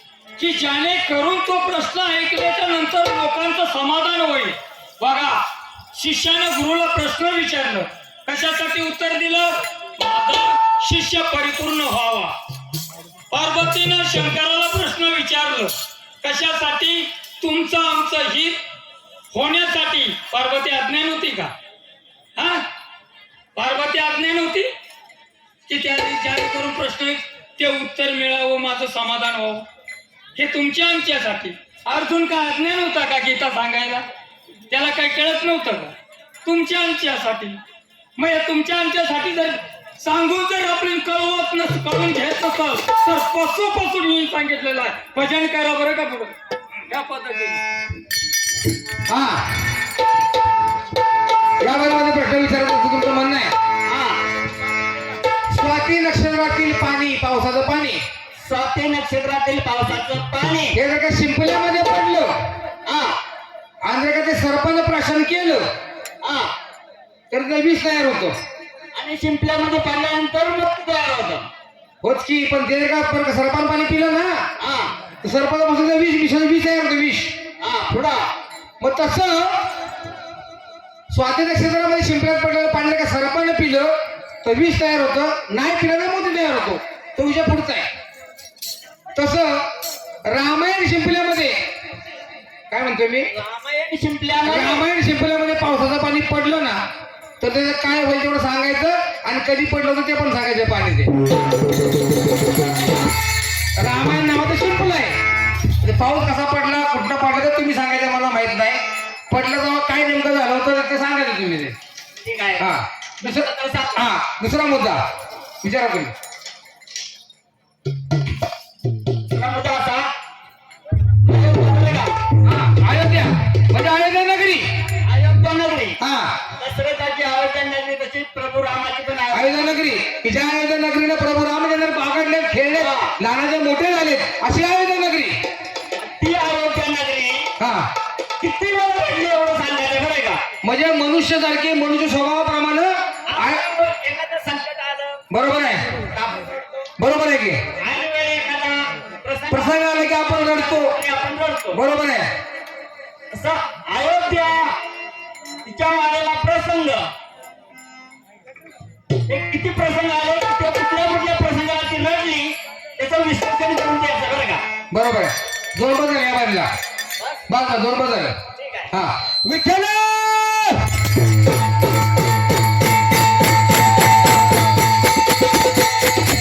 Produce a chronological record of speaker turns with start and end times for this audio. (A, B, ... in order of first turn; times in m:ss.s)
0:00.4-0:12.4 A
0:13.3-0:18.6 A
0:19.3-0:21.5 A
0:22.4-0:22.7 A
0:23.6-0:24.7 A
0:25.7-0:29.6 A
0:30.4-0:34.1 A
0:34.7-0:37.6 A
0:38.2-0:47.6 A
0:49.1-0:49.6 B
0:51.6-0:53.5 B
0:53.9-0:54.2 C
0:55.5-0:58.0 B
0:58.4-1:00.8 C
1:00.7-1:02.3 B
1:02.9-1:03.2 C
1:03.8-1:05.7 B
1:06.2-1:06.5 C
1:07.3-1:08.4 B
1:09.0-1:11.5 C
1:12.0-1:14.4 B
1:14.6-1:14.9 C
1:15.2-1:17.4 B
1:17.6-1:18.3 C
1:18.8-1:19.7 B
1:21.1-1:27.9 B
1:29.2-1:29.7 B
1:30.3-1:31.6 B
1:32.7-1:33.3 B
1:33.3-1:34.8 C
1:34.4-1:36.8 B
1:37.4-1:41.1 B
1:43.8-1:45.2 B
1:45.8-1:51.8 B
1:52.2-1:52.7 C
1:52.6-1:55.1 B
1:53.2-1:54.1 C
1:55.6-1:56.1 B
1:59.3-2:00.1 C
2:01.2-2:02.4 C
2:02.4-2:04.8 B
2:05.0-2:06.0 C
2:06.0-2:06.4 B
2:06.6-2:09.7 C
2:09.3-2:15.4 B
2:12.8-2:13.1 C
2:16.0-2:17.5 C
2:17.6-2:17.9 B
2:18.4-2:20.4 C
2:20.6-2:23.6 B
2:23.3-2:25.2 C
2:25.3-2:26.0 B
2:26.1-2:26.9 C
2:27.0-2:27.6 B
2:27.8-2:29.8 C
2:29.5-2:30.9 B
2:30.4-2:31.8 C
2:31.7-2:32.3 B
2:33.3-2:34.7 C
2:35.6-2:37.1 C
2:39.3-2:44.6 C
2:44.9-2:46.7 B
2:47.2-2:47.5 C
2:47.5-2:48.4 B
2:48.6-2:48.9 C
2:48.9-2:50.8 B